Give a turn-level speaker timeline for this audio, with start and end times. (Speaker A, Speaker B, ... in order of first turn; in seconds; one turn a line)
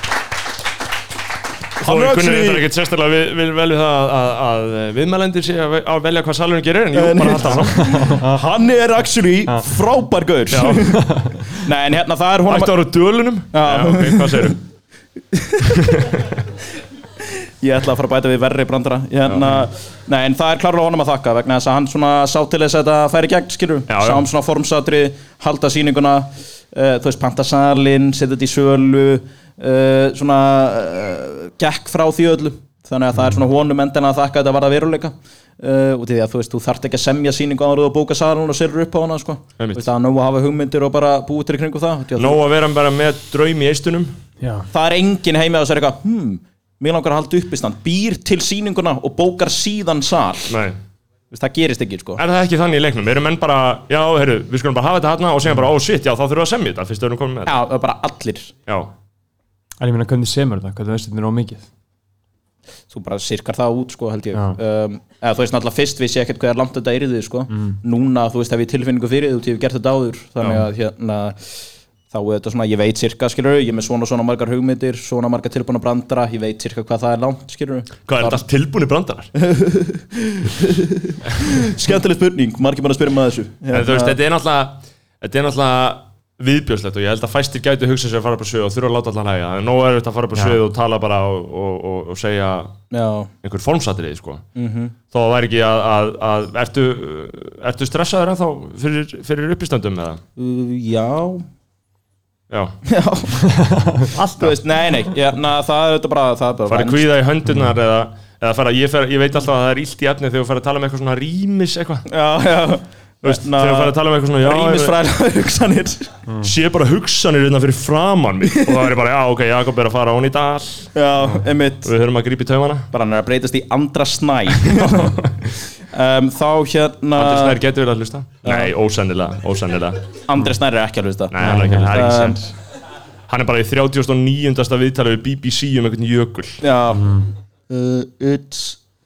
Speaker A: 1.8-2.6
Speaker B: 1.8-8.0
Speaker A: 7.0-12.8
Speaker C: 7.6-8.4
Speaker B: 10.5-11.0
Speaker C: 10.9-11.5
Speaker B: 12.5-14.6
Speaker A: 13.5-14.6
Speaker A: 15.3-15.9
Speaker B: 15.6-16.3
Speaker A: 17.3-42.4
Speaker B: 19.3-19.5
Speaker B: 23.9-24.2
Speaker B: 39.6-39.9
Speaker B: 42.2-44.1
Speaker C: 44.4-44.7
Speaker A: 44.7-50.5
Speaker B: 50.5-50.8
Speaker A: 51.3-52.2
Speaker B: 52.2-57.6
Speaker A: 57.5-58.5
Speaker C: 59.8-61.7
Speaker A: 62.9-71.6
Speaker C: 67.5-67.8
Speaker A: 72.1-78.4
Speaker B: 78.1-79.3
Speaker A: 79.4-84.2
Speaker B: 83.7-92.7
Speaker A: 92.9-93.3
Speaker B: 93.4-94.4
Speaker A: 94.6-95.0
Speaker B: 95.1-100.2
Speaker A: 100.4-101.5
Speaker B: 102.5-102.8
Speaker A: 102.8-103.6
Speaker C: 103.4-104.6
Speaker A: 104.4-107.0
Speaker B: 106.7-112.1
Speaker A: 112.1-116.1
Speaker B: 113.2-115.0
Speaker B: 116.4-120.9
Speaker A: 118.5-118.8
Speaker A: 121.0-121.9
Speaker B: 121.8-122.9
Speaker A: 122.9-127.6
Speaker B: 124.7-125.3
Speaker B: 127.2-130.0
Speaker A: 128.4-128.7
Speaker A: 130.3-132.4
Speaker B: 131.3-132.3
Speaker C: 131.4-132.5
Speaker B: 133.3-136.6
Speaker A: 136.6-138.8
Speaker C: 137.0-137.3